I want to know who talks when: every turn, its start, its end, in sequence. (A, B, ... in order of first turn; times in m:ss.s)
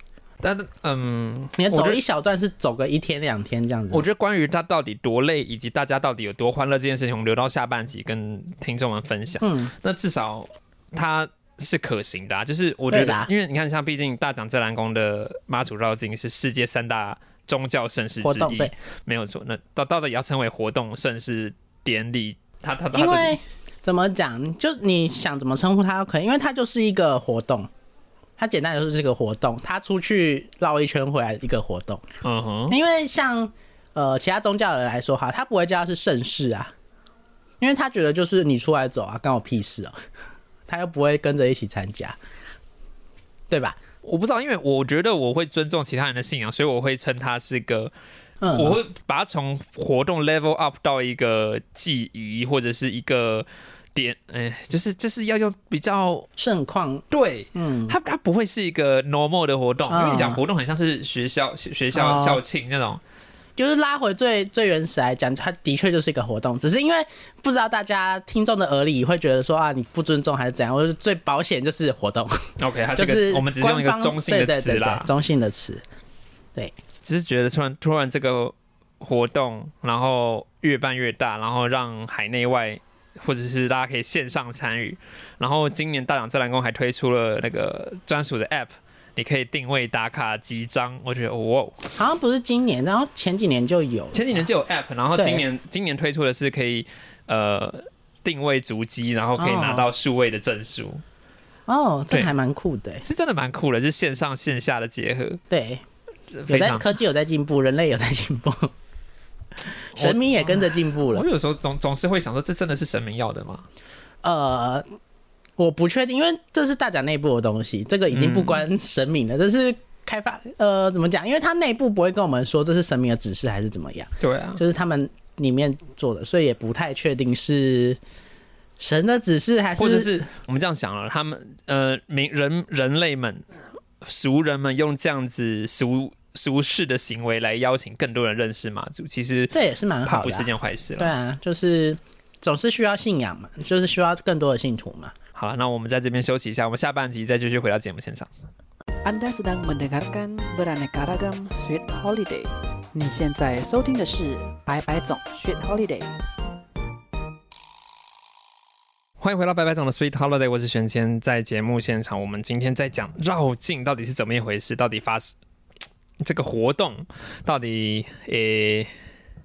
0:00.4-0:02.0 A
0:01.6-0:04.0 B
0:03.9-0:23.4 A
0:09.4-0:09.7 B
0:12.9-0:13.3 B
0:18.2-0:18.7 B
0:22.9-0:27.7 B
0:28.4-0:32.0 B
0:32.2-0:32.7 A
0:32.7-0:36.7 B
0:37.6-0:39.9 B
0:40.7-0:42.2 B
0:43.5-0:43.8 B
0:44.0-0:47.9 A
0:48.4-0:48.8 B
0:48.5-0:56.3 A
0:56.4-0:57.0 B
0:57.1-1:03.0 A
0:57.5-0:57.9 B
0:59.9-1:00.4 B
1:01.9-1:02.4 B
1:03.6-1:12.4 B
1:12.6-1:15.1 A
1:12.9-1:15.8 B
1:17.0-1:31.9 A
1:32.0-1:34.4 B
1:34.1-1:41.0 A
1:35.2-1:35.4 B
1:39.4-1:39.9 B
1:41.7-1:43.0 B
1:43.0-1:45.4 A
1:45.5-1:45.8 B
1:46.4-1:46.9 A
1:46.5-1:48.7 B
1:49.8-1:51.2 B
1:50.0-1:53.6 A
1:54.2-1:54.8 B
1:55.6-2:08.0 B
1:58.1-1:58.6 A
2:04.2-2:04.6 A
2:08.8-2:10.2 B
2:09.8-2:13.4 A
2:14.0-2:19.5 A
2:19.5-2:25.1 B
2:20.0-2:21.1 A
2:25.3-2:28.3 A
2:29.0-2:36.1 C
2:39.2-2:45.3 A
2:46.2-2:48.9 A